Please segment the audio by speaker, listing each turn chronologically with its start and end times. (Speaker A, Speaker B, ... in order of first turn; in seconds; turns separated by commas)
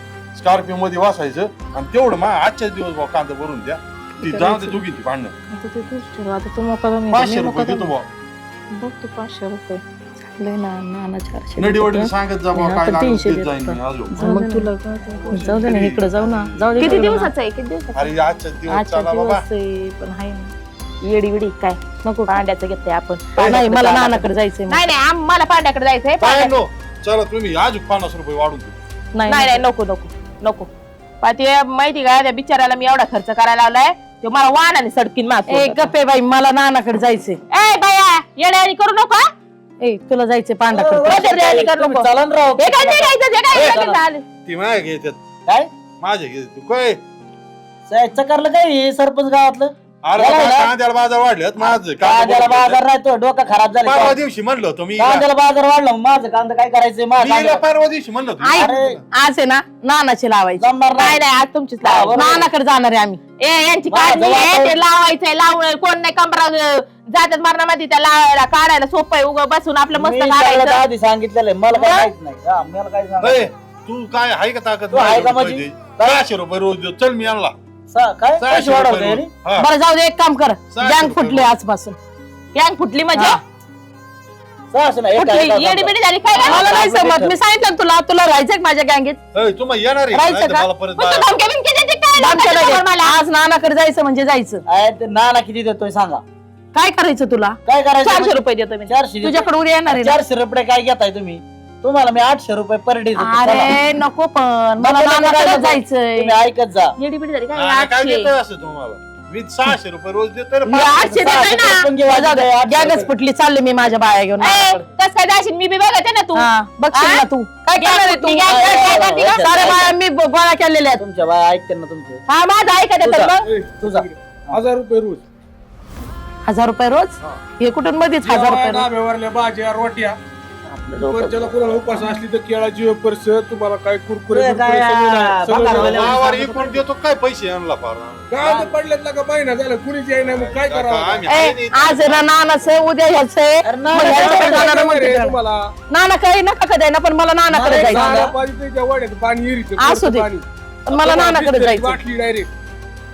Speaker A: 0.3-5.3, Speaker B: 4.3-4.7, Speaker C: 5.5-7.8, Speaker A: 7.1-8.1, Speaker C: 8.7-9.8, Speaker B: 10.2-14.7, Speaker A: 11.6-14.3, Speaker C: 14.2-15.3, Speaker D: 15.1-15.4, Speaker A: 15.2-17.1, Speaker B: 15.3-17.3, Speaker C: 16.8-18.1, Speaker A: 17.9-19.4, Speaker B: 18.7-20.5, Speaker C: 21.0-26.5, Speaker B: 22.0-22.4, Speaker B: 23.4-24.8, Speaker A: 26.2-28.8, Speaker B: 29.1-29.6, Speaker C: 29.3-30.7, Speaker C: 31.2-35.9, Speaker B: 35.5-37.4, Speaker C: 37.5-39.3, Speaker B: 39.8-41.2, Speaker E: 40.7-44.0, Speaker C: 41.0-44.2, Speaker A: 44.5-45.2, Speaker A: 46.0-47.0, Speaker E: 47.9-50.7, Speaker A: 50.0-52.8, Speaker E: 51.5-54.2, Speaker A: 53.8-55.3, Speaker E: 55.0-57.6, Speaker A: 57.1-58.8, Speaker B: 58.4-60.6, Speaker E: 58.5-59.0, Speaker E: 60.6-61.2, Speaker C: 60.9-62.2, Speaker E: 61.8-62.5, Speaker B: 62.1-63.2, Speaker C: 63.4-70.8, Speaker E: 63.9-64.8, Speaker E: 69.9-73.5, Speaker C: 71.8-72.1, Speaker A: 73.2-77.5, Speaker E: 74.9-76.2, Speaker E: 77.9-79.3, Speaker A: 78.4-79.7, Speaker B: 79.5-82.0, Speaker A: 80.7-81.5, Speaker C: 82.5-83.4, Speaker B: 83.1-83.4, Speaker E: 84.7-87.3, Speaker B: 85.1-85.5, Speaker C: 85.5-86.8, Speaker B: 86.4-89.2, Speaker A: 89.3-91.3, Speaker B: 90.1-90.7, Speaker C: 91.0-93.2, Speaker B: 92.2-94.6, Speaker E: 94.7-96.2, Speaker B: 96.7-97.6, Speaker E: 97.6-103.7, Speaker C: 98.0-98.9, Speaker B: 99.2-100.2, Speaker B: 103.2-106.3, Speaker E: 104.8-106.9, Speaker C: 107.0-108.3, Speaker A: 107.5-111.2, Speaker B: 110.7-111.5, Speaker C: 110.7-111.9, Speaker E: 110.8-113.1, Speaker B: 112.0-114.8, Speaker C: 114.4-117.2, Speaker B: 116.3-118.6, Speaker C: 117.8-119.6, Speaker E: 118.5-119.9, Speaker B: 119.4-121.0, Speaker E: 121.0-122.2, Speaker C: 122.3-123.5, Speaker E: 123.0-124.6, Speaker D: 123.5-125.2, Speaker B: 126.5-128.9, Speaker D: 128.2-130.2, Speaker E: 130.7-131.6, Speaker D: 130.9-136.7, Speaker E: 134.3-136.7, Speaker A: 135.7-138.5, Speaker D: 138.3-141.3, Speaker E: 138.4-138.7, Speaker A: 140.2-142.7, Speaker B: 141.3-145.3, Speaker E: 143.6-144.8, Speaker D: 144.0-145.6, Speaker B: 145.9-148.2, Speaker E: 147.5-148.3, Speaker D: 147.7-152.5, Speaker B: 149.8-150.3, Speaker B: 150.9-152.0